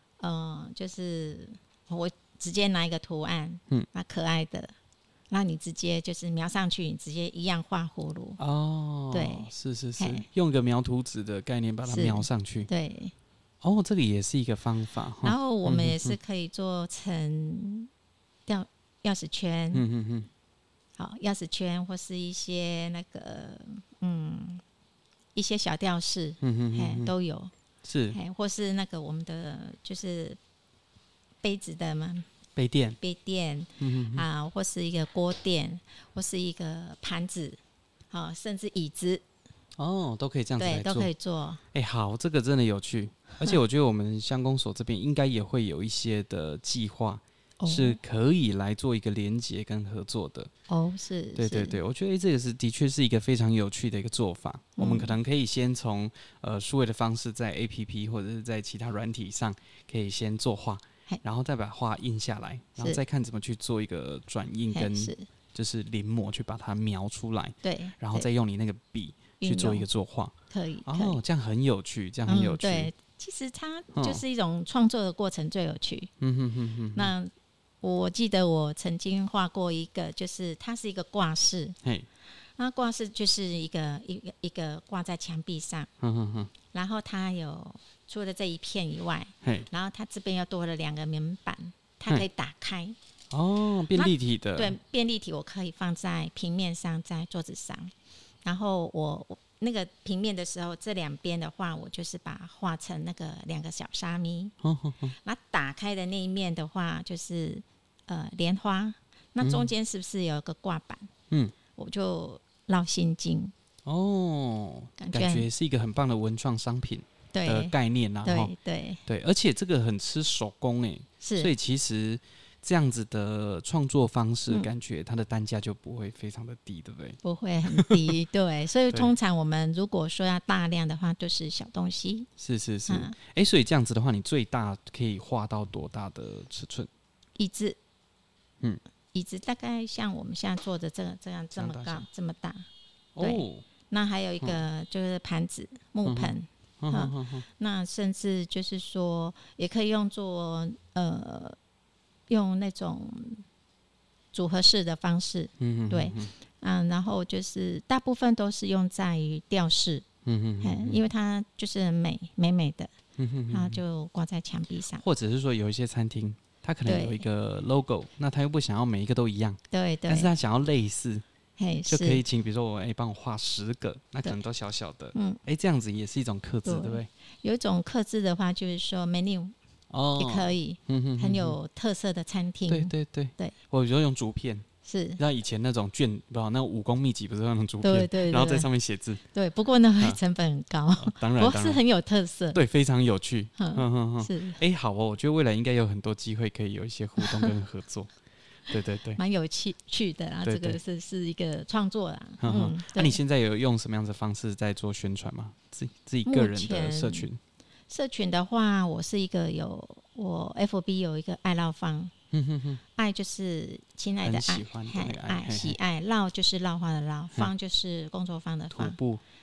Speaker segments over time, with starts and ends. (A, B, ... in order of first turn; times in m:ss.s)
0:00.2-0:04.7 A
0:05.3-0:08.4 A
0:08.4-0:12.7 B
0:09.1-0:10.3 A
0:11.9-0:13.1 A
0:13.6-0:16.2 B
0:15.2-0:17.9 A
0:18.5-0:19.8 A
0:19.7-0:20.3 B
0:21.0-0:24.6 A
0:25.4-0:27.5 A
0:26.4-0:27.1 B
0:27.8-0:28.2 B
0:28.1-0:30.4 A
0:31.4-0:32.3 A
0:32.6-0:33.0 B
0:33.0-0:37.6 A
0:33.8-0:34.3 B
0:38.1-0:39.2 A
0:39.8-0:41.1 B
0:40.6-0:41.6 A
0:41.7-0:50.5 B
0:47.6-0:48.0 A
0:50.7-0:51.8 A
0:51.4-1:10.3 B
0:54.8-0:55.2 A
1:04.7-1:05.3 A
1:07.6-1:08.3 A
1:09.4-1:09.9 A
1:10.5-1:11.2 A
1:10.9-1:12.9 B
1:12.3-1:16.1 A
1:13.9-1:14.2 B
1:16.2-1:17.1 B
1:16.9-1:21.8 A
1:22.6-1:25.9 A
1:26.0-1:26.5 B
1:26.7-1:33.0 A
1:29.4-1:29.7 B
1:33.3-1:34.8 B
1:33.9-1:37.9 A
1:38.4-1:44.5 A
1:44.6-1:45.2 B
1:45.2-1:51.1 A
1:49.4-1:49.7 B
1:51.8-1:53.5 A
1:53.9-1:58.5 B
1:55.0-1:55.5 A
1:57.3-1:59.0 A
1:59.1-2:07.2 B
2:01.2-2:01.5 A
2:07.2-2:12.3 A
2:07.7-2:08.2 B
2:12.4-2:16.9 B
2:12.9-2:13.2 A
2:17.4-2:17.8 A
2:19.1-2:22.7 A
2:21.6-2:22.1 B
2:23.2-2:23.6 B
2:23.2-2:31.6 A
2:26.1-2:27.5 B
2:32.3-2:33.4 A
2:34.3-2:40.0 A
2:35.6-2:36.3 B
2:40.2-2:41.0 B
2:40.6-2:42.9 A
2:43.2-2:43.8 B
2:43.5-2:45.0 A
2:44.9-2:51.2 B
2:46.9-2:47.2 A
2:49.7-2:50.3 A
2:51.6-2:52.2 A
2:51.9-2:57.1 B
2:55.1-2:55.4 A
2:56.6-2:59.6 A
2:59.9-3:01.6 B
3:00.2-3:03.6 A
3:02.7-3:04.7 B
3:04.8-3:05.2 A
3:05.2-3:09.2 B
3:07.8-3:08.7 A
3:09.3-3:12.6 A
3:11.0-3:11.8 B
3:12.5-3:18.1 B
3:13.6-3:14.6 A
3:17.2-3:17.5 A
3:18.7-3:19.2 B
3:19.2-3:23.2 A
3:20.4-3:20.8 B
3:22.4-3:27.4 B
3:26.3-3:27.3 A
3:27.9-3:32.1 A
3:32.3-3:32.8 B
3:33.0-3:39.0 A
3:34.2-3:35.8 B
3:38.7-3:39.2 B